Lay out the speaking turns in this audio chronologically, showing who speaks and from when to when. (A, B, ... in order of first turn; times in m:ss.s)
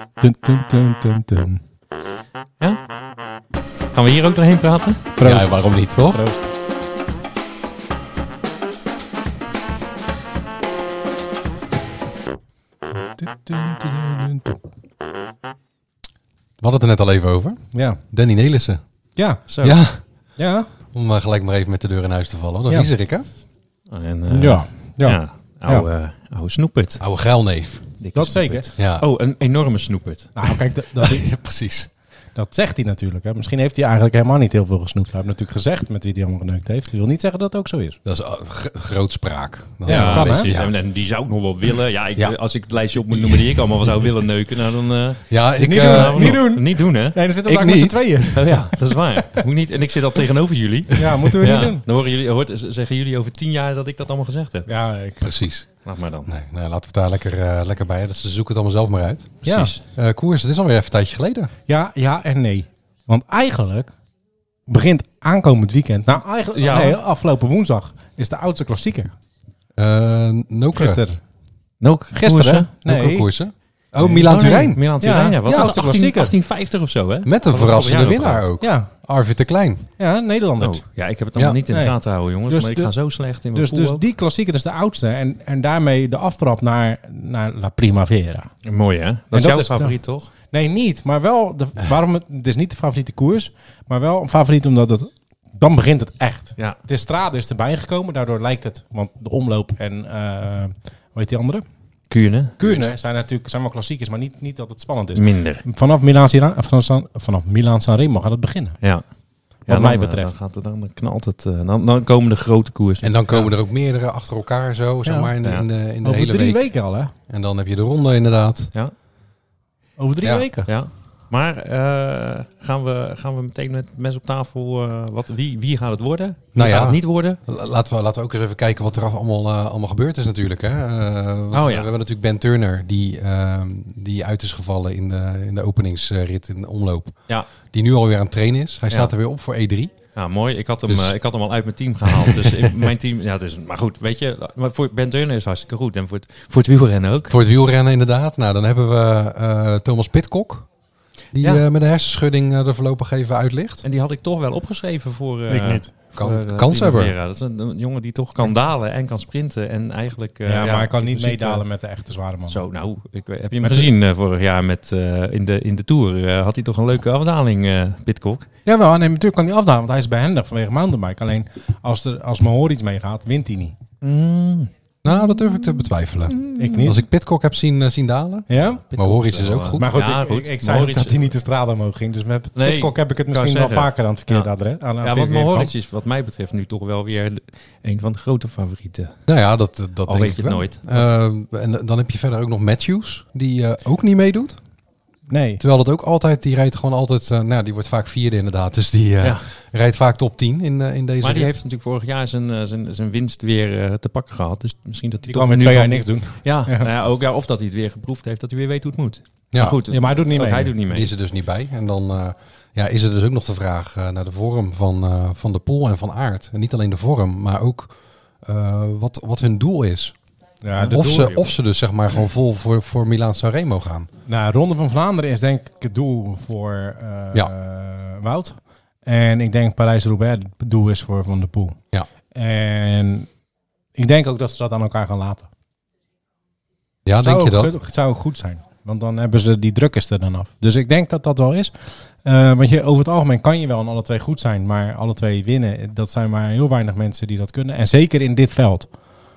0:00.2-0:01.6 A
0:03.9-0:05.1 B
0:05.2-0:06.5 A
0:05.2-0:06.2 C
0:13.0-0:14.6 A
0:16.6-0:18.8 C
0:17.7-0:18.0 A
0:19.2-0:19.5 A
0:19.5-0:19.8 B
0:19.6-0:20.0 C
0:20.4-0:20.7 A
0:20.9-0:23.3 C
0:23.9-0:27.0 B
0:24.3-0:25.9 A
0:27.0-0:28.0 C
0:28.0-0:30.3 B
0:28.2-0:28.8 A
0:28.8-0:29.0 C
0:30.3-0:31.2 A
0:31.0-0:31.9 C
0:32.3-0:38.0 A
0:38.0-0:40.8 C
0:39.8-0:40.5 A
0:39.8-0:47.2 B
0:43.1-0:43.6 C
0:45.3-0:46.5 C
0:45.6-0:48.8 A
0:47.4-0:48.6 C
0:48.3-0:54.7 B
0:50.9-0:51.8 A
0:54.7-0:55.3 A
0:55.2-0:55.7 C
0:55.8-0:56.3 B
0:56.2-1:01.5 C
0:59.4-0:59.7 A
0:59.4-0:59.8 B
1:01.7-1:03.9 A
1:04.7-1:09.1 A
1:06.5-1:07.0 B
1:09.8-1:11.0 C
1:10.7-1:11.2 A
1:11.8-1:12.7 B
1:12.2-1:13.3 A
1:12.9-1:14.8 C
1:14.0-1:16.3 A
1:14.1-1:18.5 B
1:15.4-1:15.8 C
1:17.2-1:19.9 C
1:18.6-1:18.9 A
1:20.0-1:20.8 A
1:20.6-1:24.0 B
1:21.3-1:21.6 C
1:21.7-1:21.9 A
1:22.5-1:22.9 A
1:23.5-1:28.5 A
1:28.6-1:30.3 B
1:29.3-1:30.0 A
1:30.5-1:41.6 A
1:42.1-1:42.6 B
1:42.6-1:48.8 A
1:45.2-1:45.6 B
1:49.7-1:50.3 A
1:49.7-1:53.1 B
1:53.0-1:56.6 C
1:55.0-1:55.3 A
1:56.0-1:57.1 A
1:57.3-1:58.7 C
2:00.0-2:00.7 A
2:00.2-2:00.5 C
2:00.7-2:07.4 B
2:06.6-2:19.9 C
2:11.5-2:11.9 B
2:20.1-2:27.4 B
2:20.9-2:21.1 C
2:22.1-2:22.8 C
2:27.3-2:30.7 C
2:31.3-2:33.8 C
2:31.4-2:31.7 B
2:33.8-2:41.6 B
2:35.5-2:35.9 A
2:36.1-2:37.2 C
2:40.4-2:42.6 A
2:42.5-2:48.5 B
2:43.6-2:43.9 A
2:48.7-2:53.8 A
2:54.0-2:56.9 B
2:55.0-3:00.0 C
2:56.5-2:57.0 A
2:58.5-2:58.8 A
2:58.7-3:01.4 B
2:59.8-3:05.7 A
3:02.6-3:09.1 B
3:09.3-3:14.6 C
3:10.0-3:11.1 B
3:15.3-3:15.6 A
3:15.6-3:21.5 C
3:21.2-3:31.1 B
3:25.3-3:26.9 A
3:29.5-3:29.8 C
3:29.9-3:30.7 A
3:30.9-3:37.9 C
3:38.4-3:40.1 C
3:40.6-3:41.4 A
3:40.8-3:44.1 C
3:40.8-3:41.6 B
3:44.2-3:51.8 A
3:52.3-3:53.3 A
3:53.9-3:55.5 A
3:57.0-3:57.7 C
3:57.2-4:08.9 A